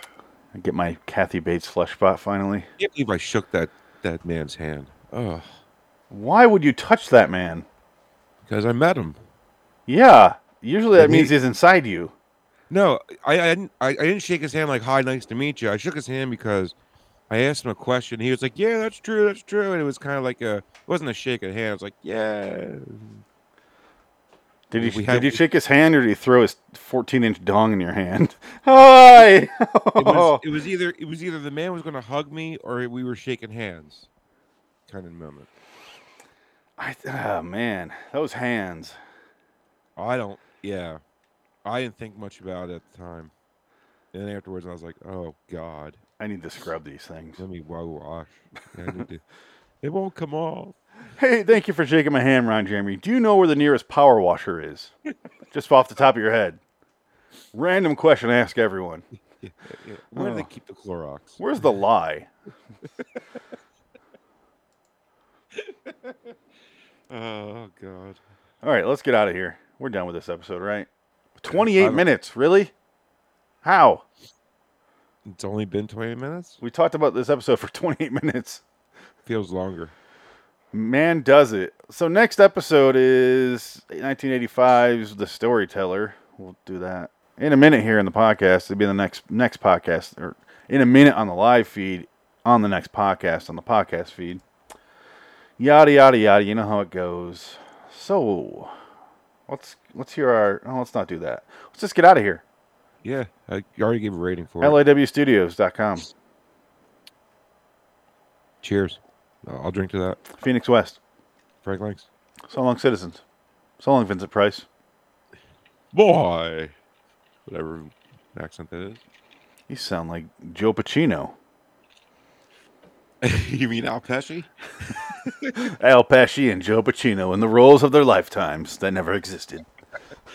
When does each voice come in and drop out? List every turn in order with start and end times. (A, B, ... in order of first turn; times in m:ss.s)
0:00.6-0:02.7 A
0:02.8-0:05.5 B
0:06.1-0:07.7 A
0:08.4-0:09.2 B
0:09.9-0:12.1 A
0:11.0-0:11.3 B
0:12.7-0:16.7 B
0:17.3-0:23.2 B
0:24.7-0:30.4 A
0:24.8-0:25.4 B
0:30.0-0:34.1 B
0:34.9-0:35.5 B
0:36.8-0:39.0 A
0:40.0-0:41.0 B
0:41.6-0:43.3 B
0:44.1-0:46.0 B
0:46.2-0:47.4 A
0:47.4-0:49.2 B
0:49.8-0:50.8 B
0:51.2-0:54.9 A
0:55.5-0:56.6 A
0:57.5-0:59.0 A
0:59.4-1:01.4 B
1:00.1-1:00.5 A
1:01.4-1:02.3 A
1:03.0-1:03.4 B
1:05.6-1:06.4 B
1:07.1-1:08.2 B
1:08.6-1:10.9 A
1:11.4-1:12.7 A
1:11.5-1:12.1 B
1:13.6-1:14.0 A
1:15.3-1:16.6 B
1:16.6-1:18.6 A
1:19.3-1:19.9 B
1:20.7-1:34.4 A
1:35.6-1:38.7 A
1:39.5-1:42.4 A
1:43.0-1:44.8 B
1:44.6-1:46.1 A
1:48.6-1:50.2 B
1:50.3-1:51.0 A
1:51.6-1:52.1 B
1:52.5-1:53.2 A
1:53.8-1:54.7 A
1:55.9-1:56.7 B
1:57.5-1:59.0 B
1:59.7-2:01.3 A
2:03.2-2:05.7 B
2:05.6-2:09.7 A